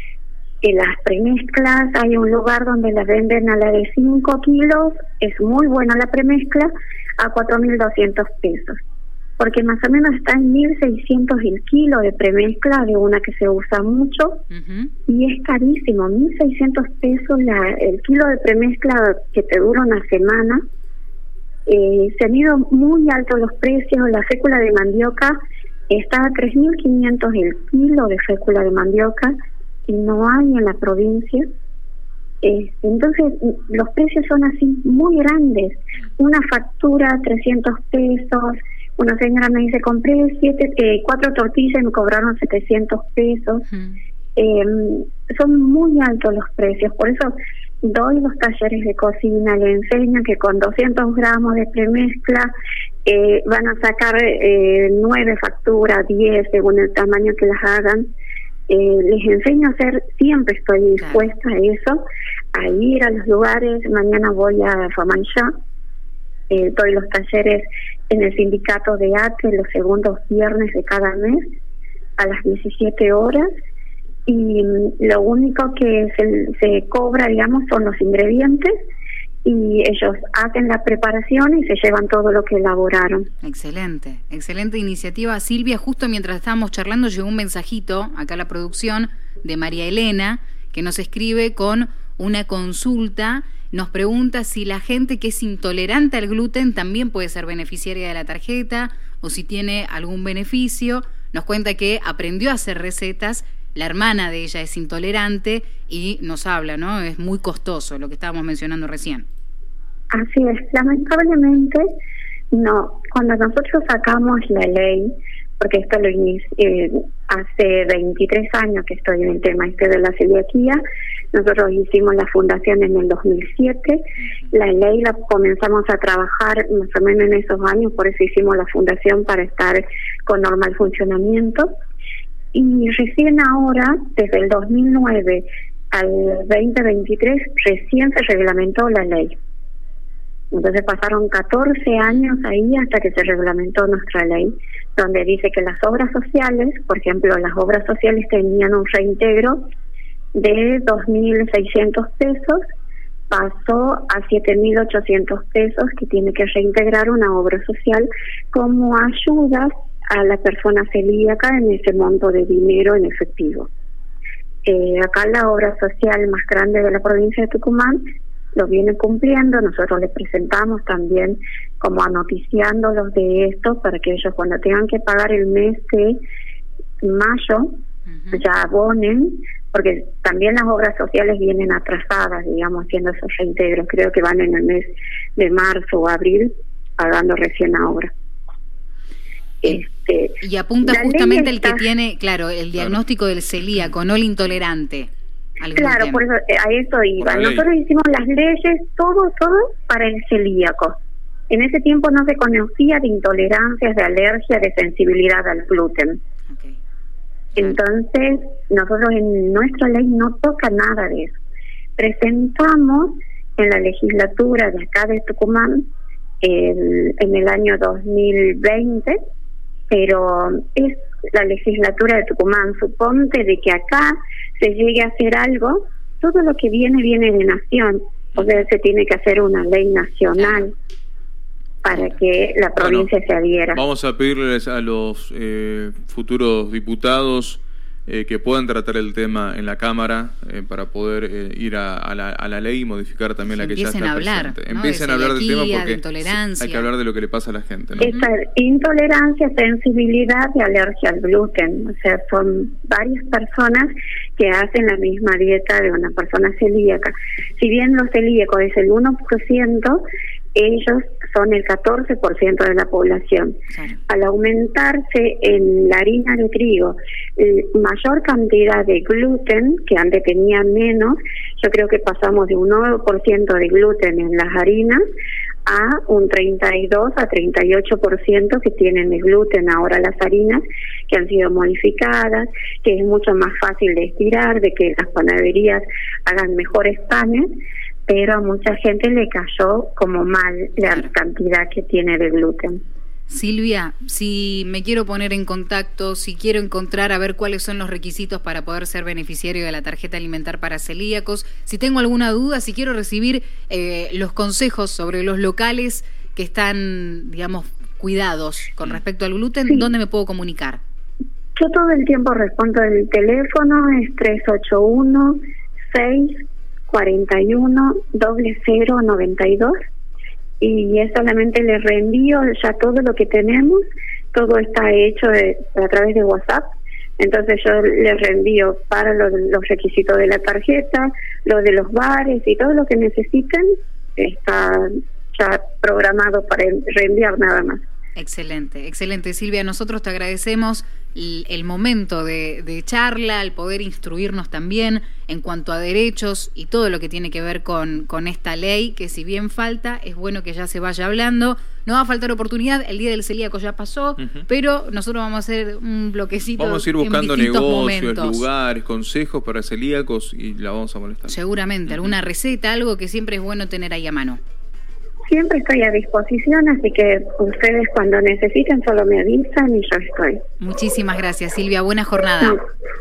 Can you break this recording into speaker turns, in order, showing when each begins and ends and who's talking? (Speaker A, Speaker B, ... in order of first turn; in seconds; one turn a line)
Speaker A: 0.6-8.8
Speaker A: 9.4-14.4
Speaker B: 14.5-14.9
Speaker A: 15.1-20.6
Speaker A: 21.7-25.4
Speaker A: 25.9-29.4
Speaker A: 29.9-31.5
Speaker A: 32.4-43.7
Speaker B: 43.7-44.0
Speaker A: 44.4-52.5
Speaker A: 53.0-58.1
Speaker A: 58.7-62.0
Speaker B: 61.0-61.3
Speaker A: 62.5-65.5
Speaker A: 66.5-71.4
Speaker A: 72.2-73.5
Speaker A: 74.3-78.7
Speaker A: 79.5-83.3
Speaker B: 83.4-109.3
Speaker A: 110.1-111.8
Speaker A: 112.5-120.8
Speaker A: 121.3-131.7
Speaker A: 132.5-139.4
Speaker A: 140.5-149.6
Speaker A: 150.3-152.6
Speaker A: 153.3-163.7
Speaker A: 164.7-168.0
Speaker A: 168.6-176.2
Speaker A: 177.0-177.8
Speaker B: 178.1-178.4
Speaker A: 178.3-188.1
Speaker A: 189.6-191.8
Speaker B: 190.4-196.2
Speaker A: 195.7-201.0
Speaker C: 197.2-197.7
Speaker A: 201.5-206.2
Speaker B: 206.5-206.8
Speaker A: 207.6-211.4
Speaker A: 212.0-215.9
Speaker A: 216.4-219.2
Speaker A: 219.9-230.7
Speaker C: 228.4-228.7
Speaker B: 230.3-230.7
Speaker A: 231.8-233.8
Speaker C: 232.8-233.1
Speaker C: 233.8-248.1
Speaker B: 243.5-246.9
Speaker B: 248.0-248.3
Speaker A: 248.0-275.0
Speaker B: 263.7-264.0
Speaker A: 275.7-287.5
Speaker A: 288.1-292.8
Speaker B: 293.3-310.8
Speaker A: 311.6-315.4
Speaker A: 315.9-319.7
Speaker A: 320.6-326.7
Speaker A: 327.2-337.9
Speaker B: 338.2-358.4
Speaker C: 354.2-354.5
Speaker C: 356.6-361.4
Speaker B: 361.3-364.4
Speaker C: 361.9-362.1
Speaker A: 365.3-370.4
Speaker B: 370.6-372.6